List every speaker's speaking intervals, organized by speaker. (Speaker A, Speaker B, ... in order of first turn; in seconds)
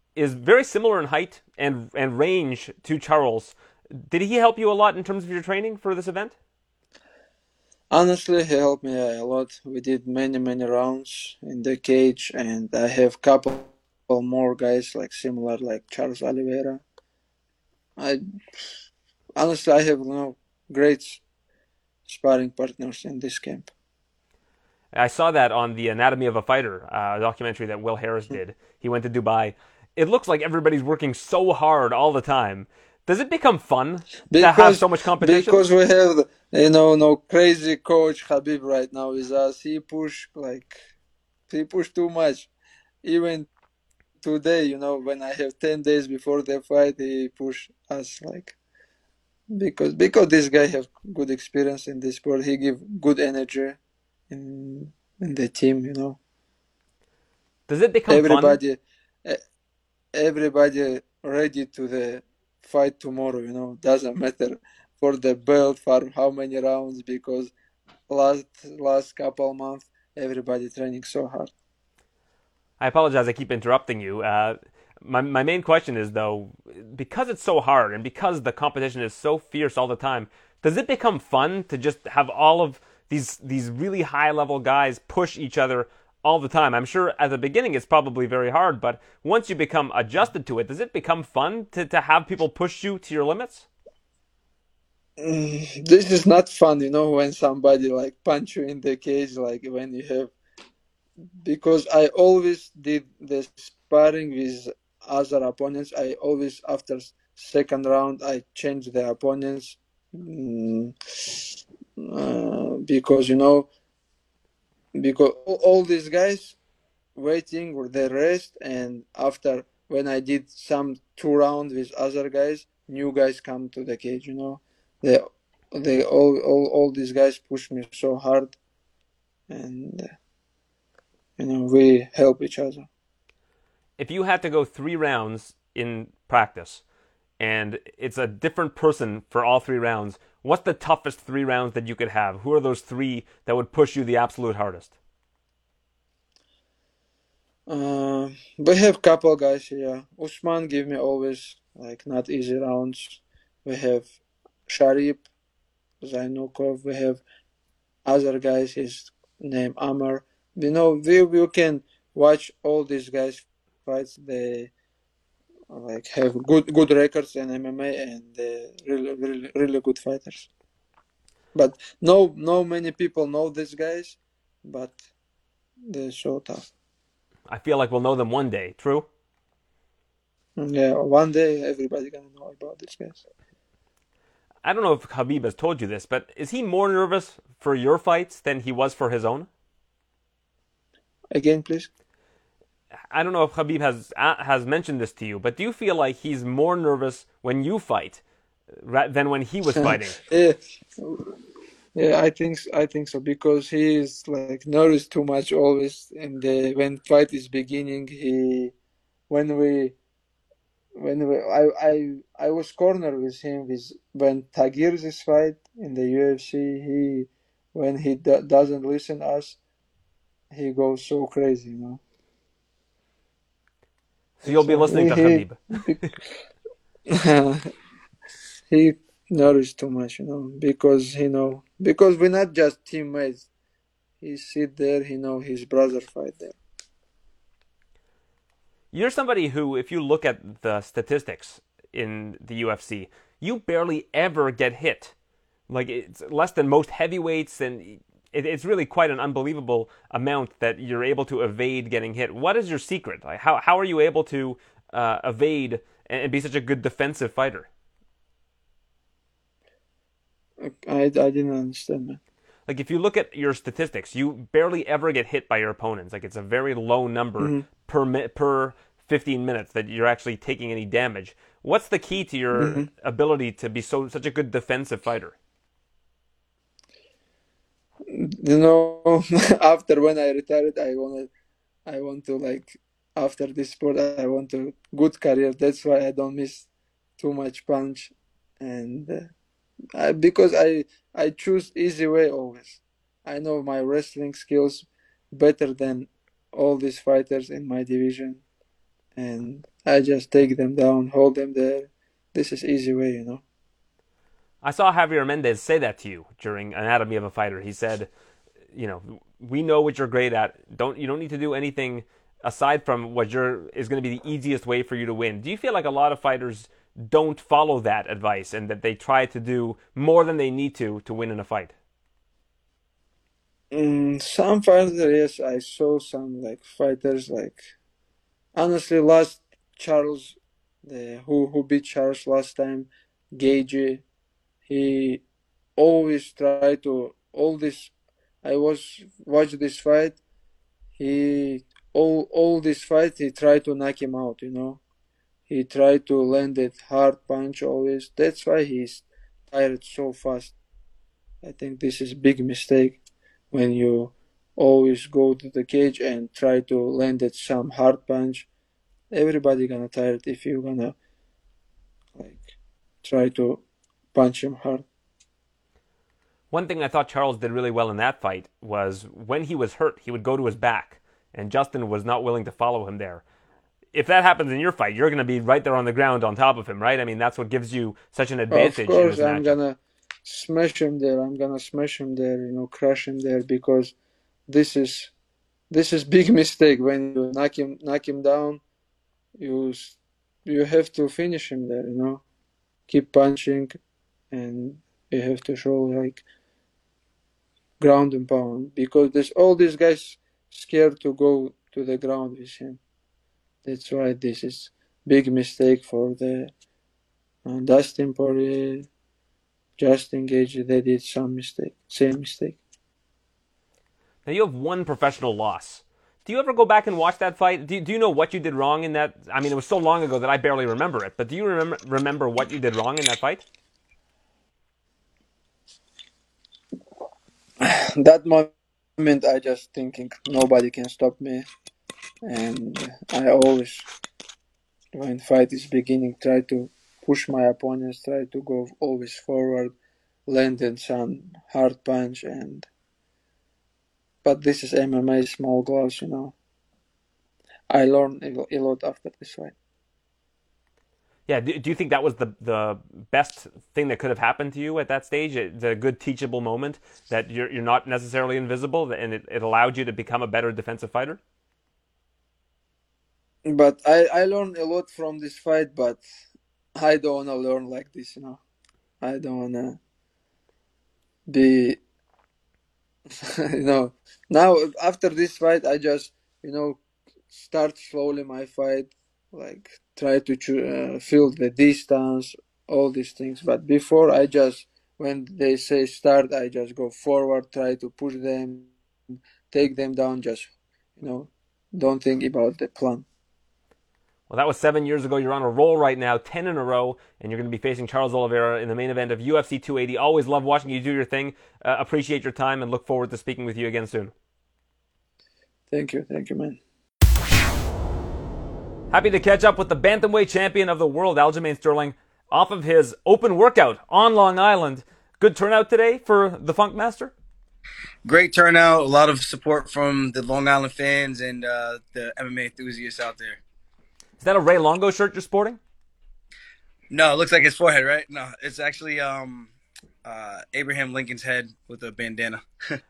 Speaker A: 0.1-6.3, 24.9-35.6, 57.7-58.6, 72.8-93.7, 134.0-136.8, 137.4-144.9, 177.5-179.1, 184.6-189.5, 193.1-198.2, 198.8-200.2, 224.4-226.1, 238.9-245.1, 245.7-257.7, 262.7-275.4, 304.6-308.1, 308.7-321.7, 366.5-373.2, 373.9-379.6, 414.3-423.4, 451.3-461.2, 494.3-504.1, 508.9-517.1, 524.2-525.6
Speaker B: 7.9-16.8, 18.0-18.6, 19.4-21.2, 22.1-23.7, 34.3-40.8, 41.5-42.5, 43.0-43.5, 44.2-48.5, 49.5-53.8, 54.3-56.2, 58.1-59.4, 60.1-67.5, 68.1-71.5, 95.2-100.3, 101.4-113.7, 115.0-116.6, 117.2-128.6, 129.5-130.1, 131.4-132.9, 147.7-154.1, 154.7-155.2, 156.0-157.2, 158.1-164.7, 165.7-170.5, 171.5-175.0, 175.9-176.7, 180.6-183.2, 191.3-191.9, 199.7-201.3, 201.9-208.7, 209.3-210.0, 211.0-219.6, 220.5-222.0, 224.5-226.0, 227.1-227.7, 228.7-233.5, 234.2-236.6, 260.6-262.2, 267.4-267.7, 272.6-272.9, 278.1-281.3, 281.9-286.7, 287.2-289.3, 289.9-298.4, 299.2-303.4, 323.7-327.7, 328.6-334.0, 334.7-335.2, 335.8-337.9, 338.4-340.2, 341.0-344.8, 345.5-350.5, 351.4-353.0, 353.5-358.5, 359.1-360.9, 362.2-363.6, 364.1-364.9, 378.5-383.9, 384.5-385.1, 385.7-388.6, 389.4-392.2, 392.9-393.8, 394.3-396.2, 397.8-402.8, 403.6-406.5, 407.4-408.9, 409.8-412.6, 427.6-431.5, 432.2-433.9, 434.9-439.7, 440.3-442.7, 444.2-446.3, 447.7-449.5, 463.5-466.0, 466.8-468.4, 469.0-469.8, 471.3-471.8, 473.2-476.8, 477.3-493.1, 505.7-506.6
Speaker C: 518.0-523.4, 526.9-529.5, 530.0-532.8